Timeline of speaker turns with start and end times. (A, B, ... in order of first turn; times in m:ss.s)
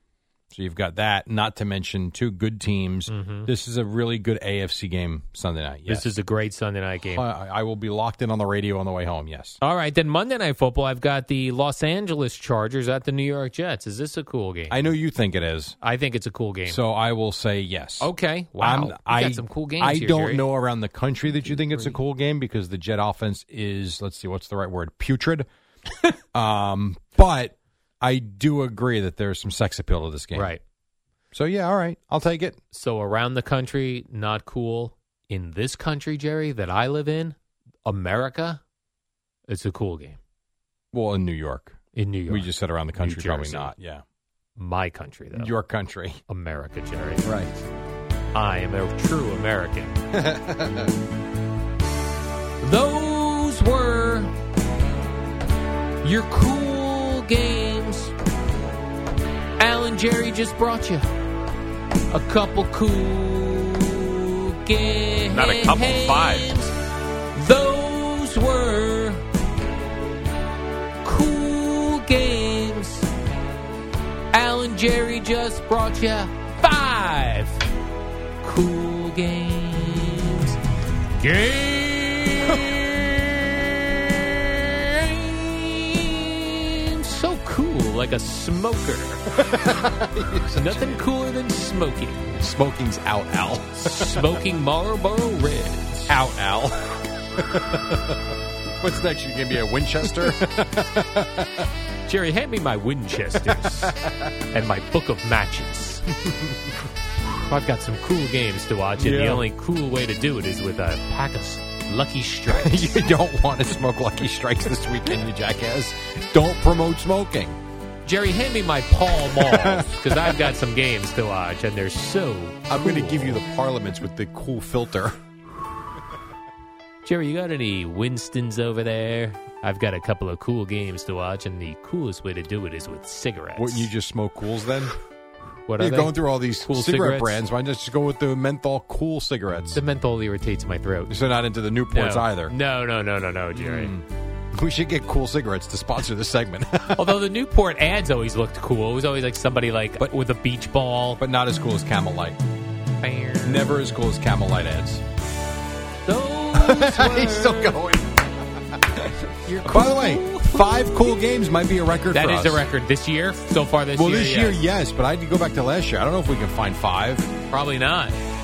0:00.5-0:06.1 A
0:03.1-0:03.5 B
0:05.9-0:07.2 B
0:07.1-0:09.6 A
0:09.6-0:14.9 B
0:14.7-0:15.8 A
0:15.8-0:16.8 B
0:16.7-0:25.5 A
0:18.0-0:20.4 B
0:21.3-0:22.0 B
0:26.3-0:30.5 A
0:30.3-0:30.6 B
0:31.3-0:32.6 A
0:32.7-0:38.6 B
0:39.5-0:40.2 B
0:40.9-0:41.8 A
0:41.9-0:43.7 B
0:42.3-0:44.0 A
0:44.6-0:45.5 B
0:45.3-0:46.2 A
0:46.3-0:47.2 B
0:47.2-0:47.5 A
0:48.3-0:50.0 B
0:50.1-0:50.9 A
0:52.6-0:54.3 B
0:56.0-0:58.1 B
0:59.6-1:01.1 B
1:02.1-1:06.7 B
1:05.3-1:06.5 A
1:07.3-1:09.2 B
1:11.0-1:13.1 B
1:14.3-1:17.7 B
1:18.4-1:20.6 B
1:21.2-1:29.3 B
1:29.3-1:31.0 A
1:30.5-1:32.3 B
1:32.3-1:34.4 A
1:33.8-1:36.1 B
1:36.1-1:41.6 A
1:42.0-1:44.0 B
1:43.5-1:44.3 A
1:44.5-1:46.1 B
1:46.3-1:46.6 A
1:47.2-1:53.0 B
1:49.0-1:49.4 A
1:52.5-1:57.6 A
1:58.0-2:03.4 B
1:59.3-2:00.5 A
2:02.7-2:05.2 A
2:07.0-2:13.9 B
2:13.6-2:14.9 A
2:15.7-2:17.4 B
2:15.8-2:19.8 A
2:19.7-2:21.1 B
2:21.1-2:22.5 A
2:21.9-2:23.9 B
2:23.5-2:27.2 A
2:27.0-2:31.2 B
2:31.2-2:32.4 A
2:33.0-2:33.8 B
2:33.4-2:35.0 A
2:36.0-2:37.8 B
2:36.5-2:39.1 A
2:39.4-2:41.1 B
2:39.6-2:42.6 A
2:42.1-2:44.6 B
2:43.9-2:47.3 A
2:47.5-2:48.2 B